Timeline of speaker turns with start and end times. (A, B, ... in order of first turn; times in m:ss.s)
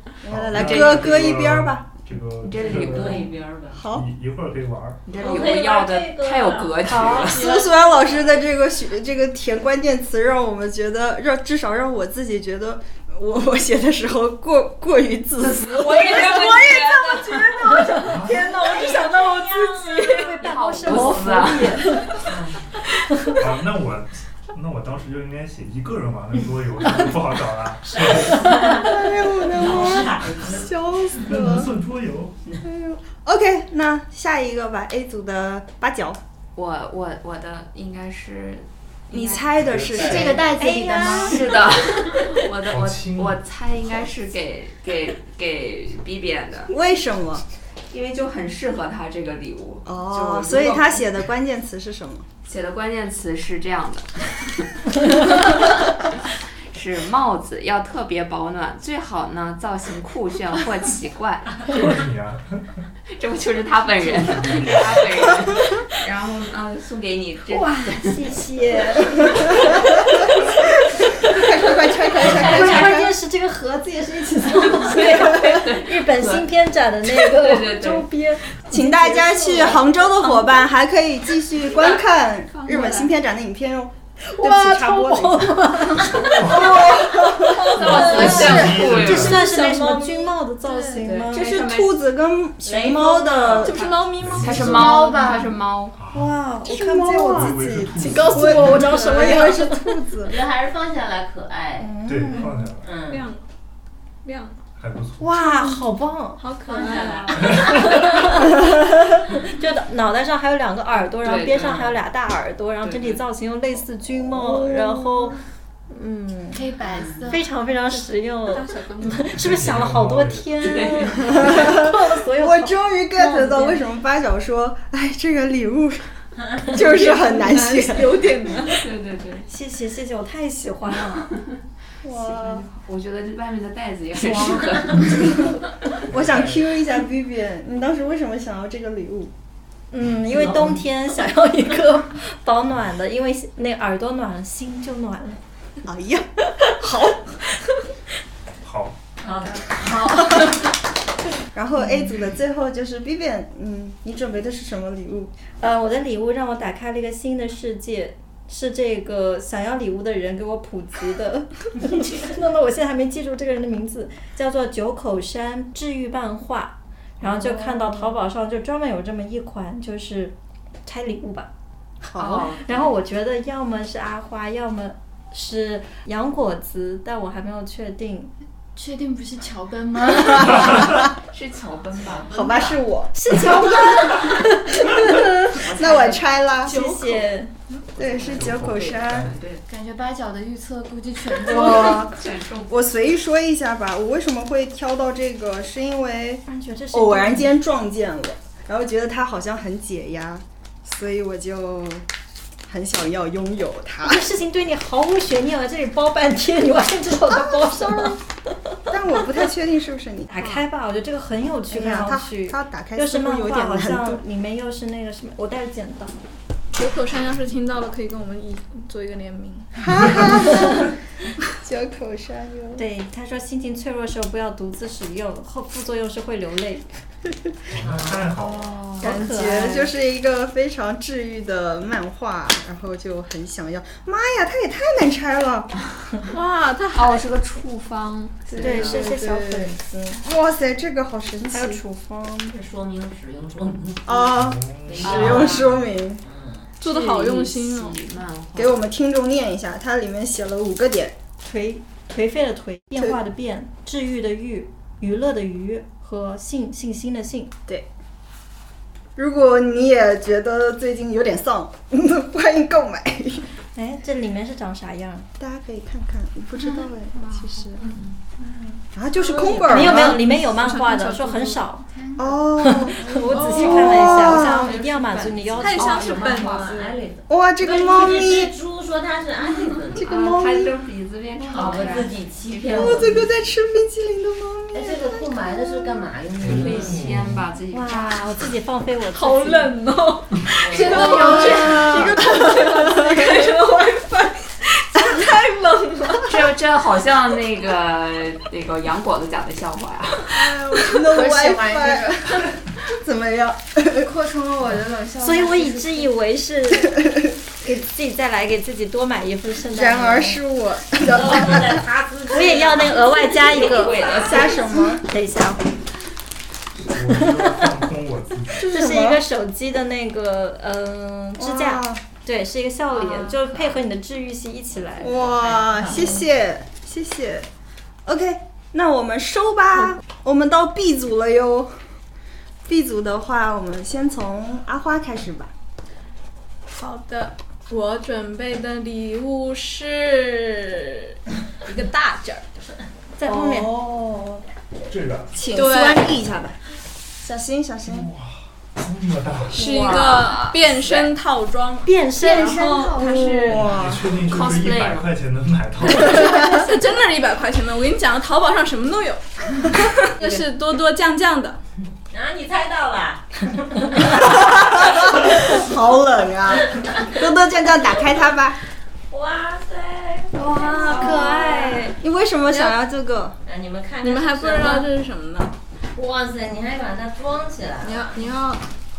0:00.2-0:01.8 A
0:00.3-0:03.3 B
0:00.5-0:01.2 C
0:02.4-0:03.2 C
0:02.5-0:03.8 D
0:03.8-0:04.1 A
0:03.8-0:05.0 B
0:05.1-0:07.5 C
0:05.2-0:08.3 D
0:06.8-0:07.4 E
0:07.3-0:19.1 A
0:15.4-0:17.8 C
0:18.0-0:18.5 B
0:18.3-0:20.5 D
0:20.0-0:22.2 E
0:20.4-0:22.0 C
0:22.2-0:22.7 D
0:23.0-0:23.4 E
0:23.4-0:28.9 B
0:27.8-0:30.7 D
0:28.7-0:31.7 A
0:29.9-0:30.5 B
0:31.1-0:32.4 B
0:32.6-0:36.2 A
0:36.6-0:39.5 C
0:39.1-0:40.5 A
0:39.5-0:40.5 B
0:40.0-0:41.6 F
0:40.5-0:41.5 E
0:41.0-0:46.7 C
0:42.6-0:43.4 B
0:46.7-0:47.4 A
0:47.9-0:51.1 C
0:49.9-0:52.2 A
0:52.4-0:55.7 C
0:56.7-1:01.8 C
1:01.6-1:02.8 B
1:03.1-1:08.2 C
1:04.0-1:05.5 B
1:07.5-1:10.0 E
1:09.0-1:10.2 A
1:09.5-1:09.8 C
1:10.9-1:13.1 A
1:12.2-1:20.7 E
1:12.4-1:12.8 C
1:14.6-1:16.5 C
1:17.0-1:18.1 C
1:18.7-1:29.0 A
1:21.7-1:23.1 C
1:24.3-1:31.5 E
1:26.2-1:26.8 B
1:26.8-1:29.9 C
1:27.8-1:29.6 B
1:30.9-1:32.0 C
1:31.3-1:33.8 A
1:32.6-1:33.8 D
1:33.6-1:35.2 G
1:33.6-1:35.9 C
1:34.2-1:34.9 B
1:34.6-1:35.5 F
1:36.0-1:36.4 B
1:36.1-1:37.6 E
1:36.6-1:40.4 A
1:37.3-1:39.0 B
1:38.0-1:39.5 G
1:38.2-1:40.1 E
1:40.2-1:41.9 D
1:41.8-1:42.5 A
1:42.0-1:42.9 B
1:42.3-1:43.4 G
1:42.8-1:43.2 D
1:44.2-1:44.6 G
1:44.8-1:45.4 B
1:45.2-1:46.4 E
1:46.4-1:47.8 G
1:46.6-1:48.0 D
1:46.8-1:47.6 C
1:47.6-1:55.4 E
1:51.2-1:51.9 C
1:52.8-1:53.2 C
1:54.4-1:55.4 A
1:55.9-1:56.6 E
1:56.5-1:57.5 F
1:57.3-2:03.8 E
1:58.5-1:59.4 C
1:59.4-2:01.0 B
2:00.6-2:01.5 C
2:01.3-2:08.5 A
2:06.8-2:08.8 G
2:08.6-2:09.5 C
2:09.5-2:11.3 E
2:12.0-2:12.6 A
2:12.2-2:15.5 C
2:14.2-2:14.8 E
2:14.2-2:15.5 A
2:16.1-2:19.3 A
2:16.1-2:16.6 D
2:19.9-2:25.4 E
2:20.4-2:20.7 D
2:25.8-2:27.4 A
2:28.6-2:29.0 B
2:29.2-2:29.7 D
2:29.2-2:30.2 C
2:29.8-2:30.5 A
2:31.5-2:35.4 A
2:35.6-2:51.5 E
2:47.2-2:48.1 A
2:52.0-2:52.5 A
2:52.2-2:52.9 C
2:52.6-2:58.3 E
2:58.8-3:00.9 F
3:01.3-3:02.8 C
3:02.2-3:06.9 A
3:03.1-3:04.8 E
3:05.5-3:06.2 C
3:06.6-3:07.5 E
3:06.7-3:07.2 G
3:08.0-3:09.3 A
3:08.0-3:09.6 C
3:08.3-3:09.3 B
3:09.7-3:12.1 F
3:11.4-3:22.1 A
3:11.4-3:12.8 C
3:16.5-3:17.6 E
3:22.7-3:24.2 A
3:24.0-3:28.2 E
3:27.3-3:28.2 A
3:28.9-3:30.3 A
3:28.9-3:29.4 E
3:30.3-3:36.2 E
3:31.7-3:34.2 A
3:36.8-3:39.8 G
3:39.8-3:40.9 A
3:41.6-3:42.8 A
3:42.8-3:46.9 E
3:47.7-3:48.8 B
3:47.8-3:48.3 D
3:48.4-3:55.8 A
3:48.8-3:49.9 E
3:56.3-3:57.2 G
3:56.9-3:58.7 C
3:58.5-4:01.8 A
3:58.6-4:00.2 E
3:58.6-3:59.0 G
4:01.5-4:02.5 E
4:02.5-4:06.7 D
4:04.1-4:06.2 A
4:04.3-4:05.7 B
4:05.0-4:05.6 C
4:06.8-4:08.0 G
4:06.8-4:08.8 C
4:08.6-4:11.2 A
4:11.4-4:17.5 E
4:19.2-4:23.5 A
4:23.8-4:25.3 E
4:25.4-4:27.8 A
4:27.8-4:28.1 C
4:28.4-4:30.2 A
4:29.2-4:29.6 D
4:29.7-4:31.8 E
4:29.7-4:31.7 G
4:31.9-4:32.5 F
4:32.2-4:34.7 A
4:32.6-4:36.0 E
4:33.2-4:34.0 G
4:34.0-4:36.9 C
4:35.6-4:36.9 G
4:36.2-4:40.1 D
4:37.3-4:38.5 A
4:39.9-4:40.8 A
4:40.0-4:42.1 C
4:41.5-4:43.3 D
4:42.7-4:45.9 A
4:44.7-4:47.2 D
4:46.4-4:47.4 B
4:46.4-4:48.5 C
4:47.7-4:49.8 E
4:49.1-4:54.3 C
4:50.5-4:51.2 D
4:50.8-4:53.5 A
4:50.9-4:51.9 F
4:54.9-4:55.4 A
4:56.2-5:00.6 C
5:00.3-5:04.1 A
5:01.0-5:02.4 F
5:04.0-5:06.1 F
5:05.2-5:07.0 E
5:07.6-5:10.4 E
5:09.7-5:11.8 A
5:11.1-5:14.4 D
5:12.3-5:14.4 E
5:13.3-5:14.7 C
5:14.0-5:15.0 A
5:15.0-5:15.7 E
5:16.8-5:18.8 B
5:17.0-5:17.7 E
5:18.5-5:19.2 A
5:18.7-5:25.2 E
5:21.4-5:22.0 A
5:22.9-5:23.8 C
5:24.8-5:26.2 D
5:25.0-5:27.5 A
5:28.0-5:31.7 A
5:32.7-5:35.5 A
5:36.7-5:42.4 G
5:43.2-5:43.8 E
5:43.2-5:44.4 A
5:44.9-5:45.4 B
5:45.3-5:46.6 A
5:45.5-5:46.2 G
5:47.2-5:48.1 A
5:47.8-5:49.7 B
5:49.5-5:51.9 G
5:49.5-5:51.1 C
5:51.8-5:53.3 E
5:52.2-5:53.7 F
5:53.0-5:54.1 A
5:53.5-5:56.4 B
5:54.2-5:55.1 C
5:56.0-6:01.6 G
5:56.3-5:56.6 A
6:02.1-6:05.3 D
6:04.0-6:08.6 A
6:06.8-6:07.1 D
6:09.1-6:11.9 D
6:10.4-6:13.4 A
6:10.4-6:12.0 E
6:12.5-6:12.8 G
6:13.4-6:14.9 D
6:14.0-6:15.5 G
6:15.9-6:18.2 D
6:17.8-6:18.6 G